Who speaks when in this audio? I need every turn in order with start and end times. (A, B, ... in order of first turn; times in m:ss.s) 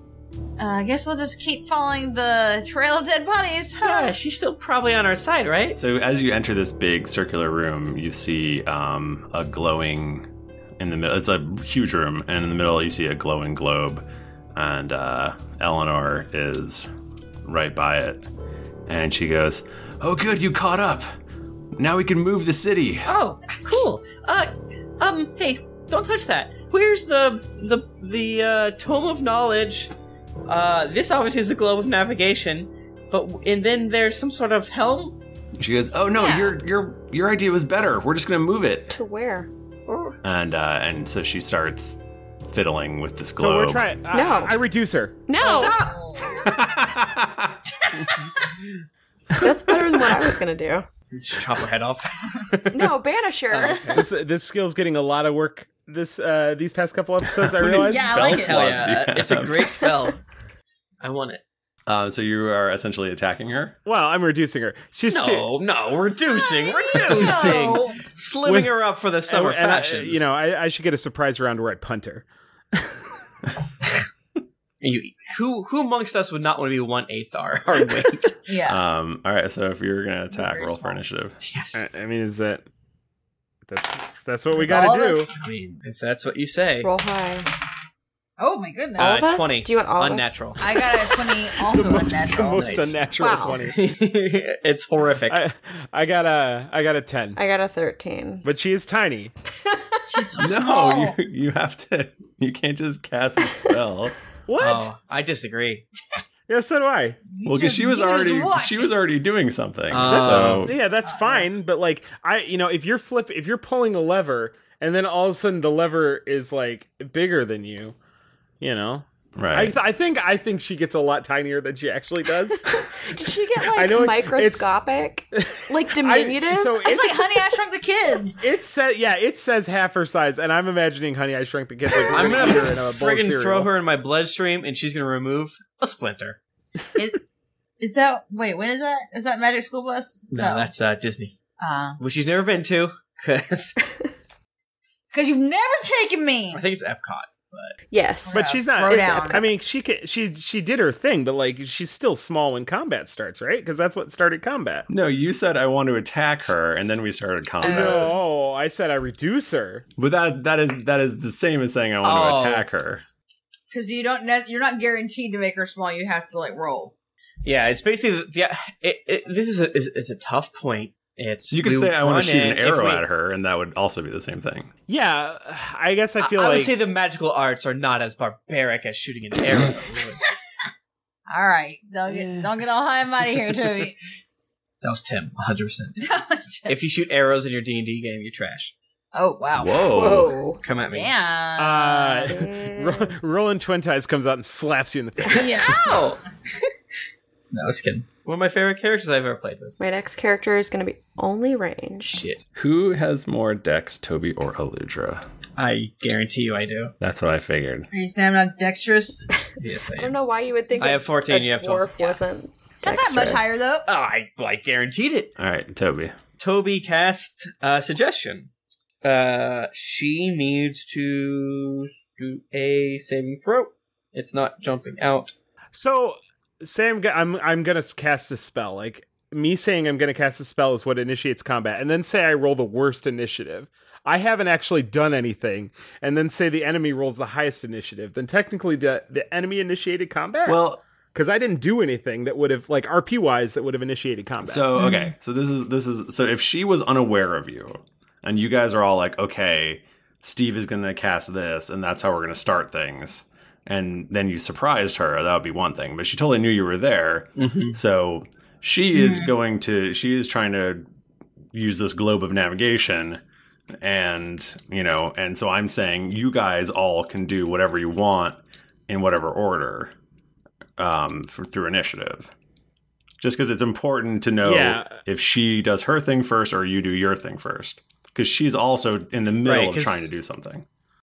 0:00.6-0:04.2 A
0:03.8-0:05.8 B
0:05.8-0:10.3 C
0:10.8-0:14.0 C
0:14.6-0:16.9 C
0:17.4-0:18.3 C
0:18.9-0:21.1 C
0:21.8-0:23.1 C
0:23.1-0:29.9 B
0:30.5-0:35.2 B
0:35.6-0:38.9 C
0:36.2-0:36.6 A
0:38.9-0:39.5 D
0:39.9-0:40.2 B
0:40.2-0:43.9 C
0:43.4-0:45.3 E
0:44.1-0:44.6 D
0:45.3-0:45.9 D
0:45.4-0:45.9 B
0:45.4-0:46.5 A
0:46.4-0:47.6 C
0:49.4-0:50.9 D
0:51.1-0:53.0 B
0:52.7-0:53.9 D
0:53.5-0:54.0 B
0:53.9-0:58.2 E
0:57.6-0:59.8 C
0:57.6-1:00.2 B
0:57.8-0:59.0 A
1:01.0-1:01.4 B
1:01.9-1:03.8 C
1:03.8-1:05.5 E
1:05.1-1:10.2 B
1:06.3-1:08.0 A
1:08.5-1:08.8 E
1:09.3-1:12.2 E
1:14.8-1:18.3 B
1:18.5-1:18.8 A
1:18.6-1:21.4 C
1:20.3-1:21.0 A
1:21.4-1:21.8 B
1:21.7-1:22.6 E
1:23.7-1:25.3 E
1:24.5-1:25.3 A
1:25.4-1:26.9 B
1:26.8-1:27.5 D
1:28.4-1:29.4 A
1:29.0-1:30.5 D
1:29.0-1:30.6 B
1:30.6-1:32.9 A
1:31.7-1:33.8 E
1:32.4-1:33.0 B
1:33.2-1:33.7 D
1:33.6-1:35.4 B
1:35.3-1:37.4 E
1:37.4-1:38.5 D
1:38.4-1:39.3 E
1:40.1-1:41.2 A
1:40.4-1:44.1 C
1:44.5-1:44.9 E
1:44.6-1:45.9 B
1:46.5-1:47.2 E
1:47.3-1:49.0 A
1:47.4-1:50.8 C
1:49.9-1:50.7 B
1:50.1-1:58.0 E
1:51.0-1:51.5 A
1:58.6-2:02.7 E
1:59.4-1:59.8 C
2:02.7-2:07.2 D
2:03.7-2:04.7 E
2:05.4-2:07.1 E
2:06.8-2:08.4 A
2:08.4-2:13.7 E
2:12.1-2:16.4 B
2:17.0-2:17.2 A
2:17.8-2:20.7 A
2:20.3-2:21.3 B
2:21.6-2:22.0 A
2:22.0-2:23.8 B
2:25.1-2:26.6 A
2:26.5-2:27.8 B
2:27.9-2:29.5 D
2:28.2-2:29.4 A
2:28.3-2:34.9 E
2:34.9-2:38.2 C
2:37.6-2:38.1 A
2:37.6-2:39.9 E
2:37.7-2:38.1 B
2:40.0-2:43.0 C
2:42.0-2:42.6 B
2:43.7-2:46.9 A
2:47.4-2:53.0 B
2:51.5-2:54.7 C
2:54.9-2:56.7 E
2:56.2-3:00.2 B
3:01.3-3:04.0 A
3:04.8-3:06.1 B
3:06.0-3:06.8 A
3:06.7-3:08.7 B
3:09.1-3:12.3 A
3:09.6-3:10.3 C
3:09.9-3:10.6 D
3:10.6-3:11.1 B
3:11.6-3:15.5 E
3:12.2-3:13.1 D
3:15.3-3:16.2 B
3:15.4-3:16.1 A
3:17.5-3:19.8 B
3:19.8-3:22.2 D
3:22.1-3:22.4 B
3:22.6-3:25.2 C
3:25.6-3:26.9 B
3:27.0-3:27.9 C
3:27.9-3:29.3 A
3:29.6-3:30.2 B
3:30.0-3:33.6 D
3:30.7-3:32.0 B
3:32.8-3:33.9 A
3:33.8-3:35.3 B
3:35.4-3:36.2 C
3:36.4-3:38.5 B
3:39.0-3:45.3 B
3:45.7-4:00.6 E
4:00.5-4:00.8 C
4:01.1-4:04.7 E
4:04.4-4:20.9 C
4:17.4-4:17.8 B
4:19.0-4:19.3 A
4:21.5-4:23.2 C
4:23.8-4:29.9 C
4:30.8-4:32.3 C
4:33.2-4:40.6 C
4:34.4-4:35.0 E
4:39.4-4:40.1 B